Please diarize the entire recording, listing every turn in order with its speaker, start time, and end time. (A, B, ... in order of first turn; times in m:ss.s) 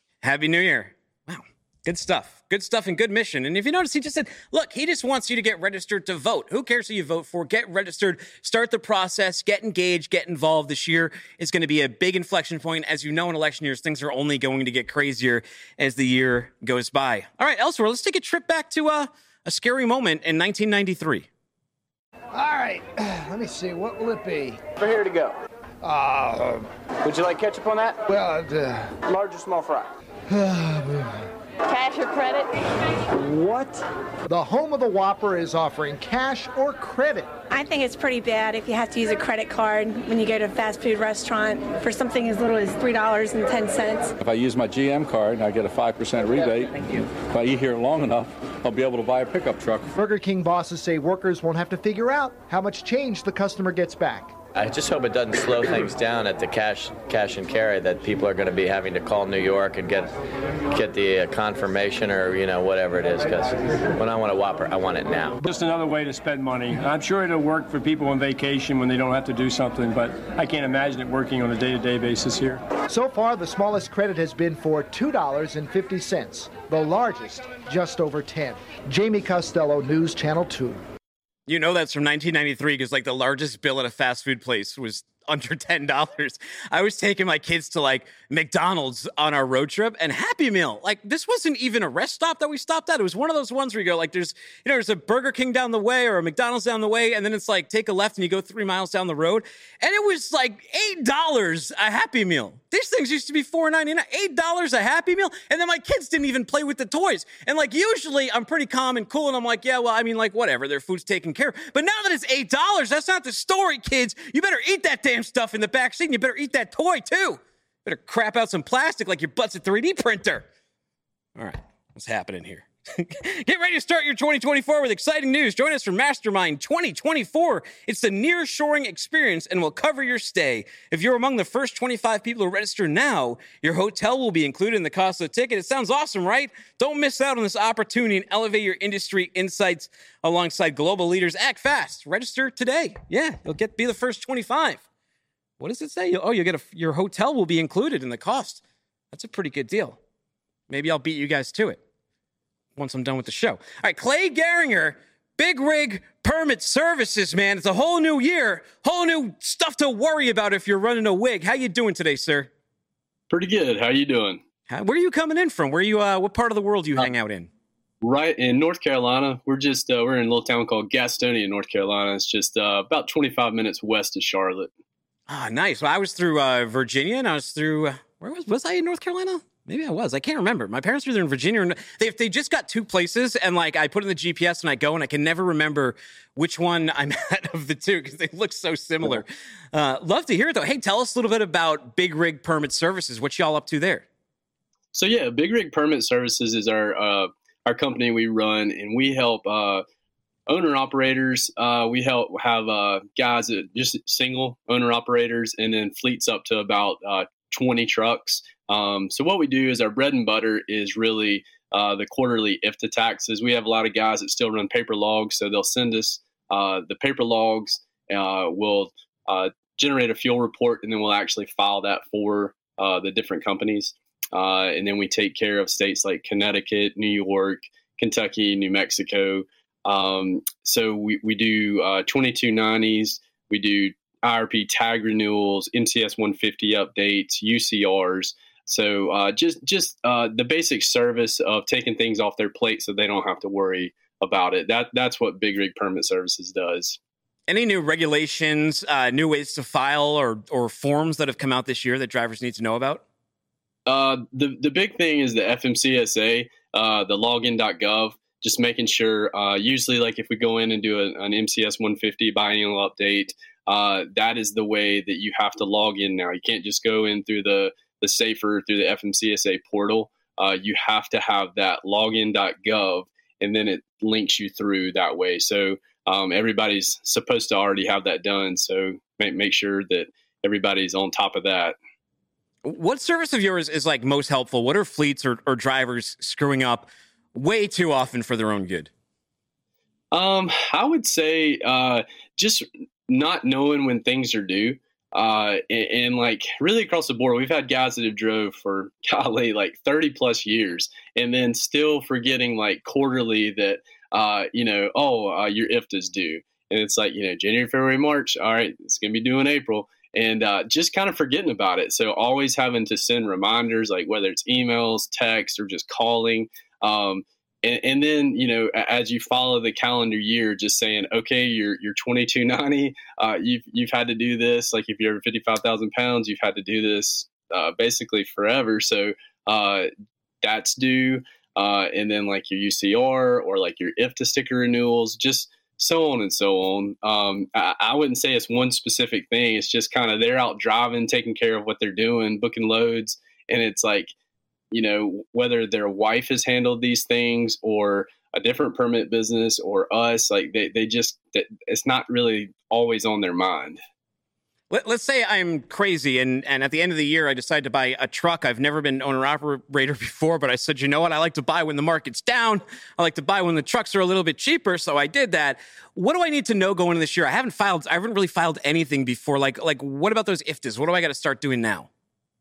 0:00.2-0:21.3 A
0:22.3-0:24.6 B
0:24.8-0:25.4 C
0:25.8-0:26.7 B
0:27.0-0:28.0 C
0:28.0-0:29.0 B
0:29.1-0:29.9 C
0:30.3-0:31.3 B
0:31.7-0:32.4 C
0:33.1-0:37.3 B
0:37.5-0:44.1 D
0:44.2-0:49.9 E
0:49.9-0:54.4 B
0:54.5-1:00.1 F
1:00.7-1:05.4 F
1:05.4-1:12.6 G
1:12.9-1:20.8 B
1:21.5-2:00.5 A
2:01.4-2:24.8 A
2:25.6-2:30.0 A
2:30.7-2:31.8 A
2:32.8-2:42.5 A
2:43.3-2:44.4 H
2:44.7-2:47.5 A
2:48.0-2:54.7 H
2:55.3-3:14.0 A
3:14.9-3:19.8 H
3:20.5-4:07.0 H
4:07.5-4:13.0 A
4:13.9-4:41.8 H
4:42.6-4:48.9 A
4:50.1-5:29.9 H
5:30.4-5:44.1 H
5:44.7-5:53.8 H
5:54.7-6:11.9 A